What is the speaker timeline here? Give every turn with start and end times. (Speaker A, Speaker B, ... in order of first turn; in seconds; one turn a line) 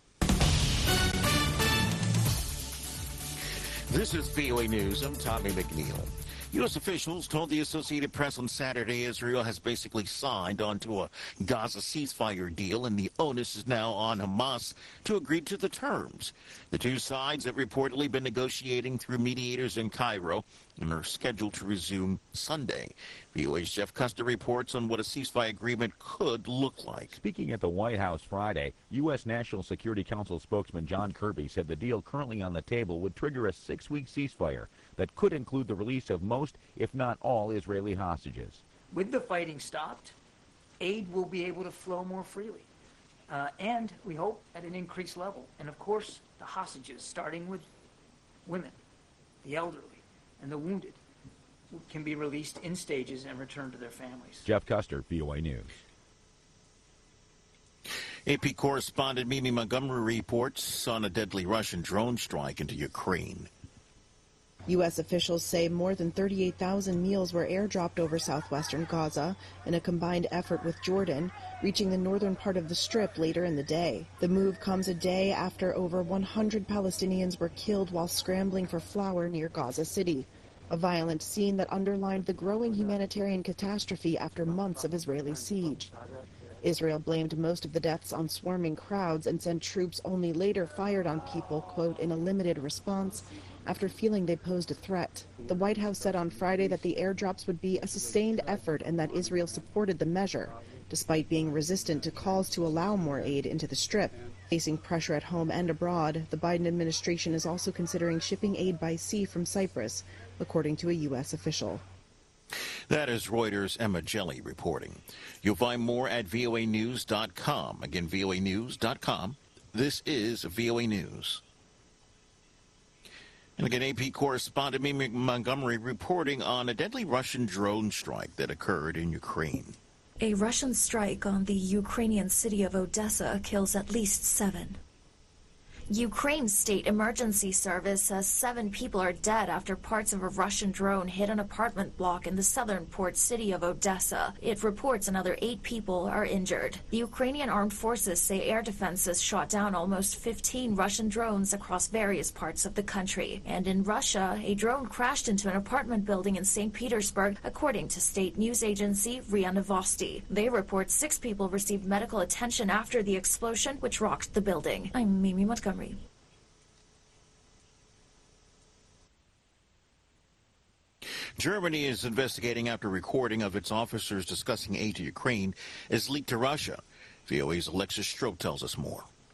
Speaker A: 3.9-27.2
Speaker B: 27.1-38.6
Speaker C: 38.9-40.1
Speaker C: 40.8-42.7
Speaker C: 43.3-47.7
Speaker C: 48.5-48.7
Speaker C: 49.4-51.0
Speaker C: 51.7-54.5
Speaker B: 54.5-55.7
Speaker A: 58.2-63.5
Speaker D: 64.7-85.9
Speaker D: 86.6-111.8
Speaker A: 112.9-121.4
Speaker A: 123.6-129.8
Speaker E: 130.2-134.8
Speaker E: 135.9-166.0
Speaker A: 171.4-179.1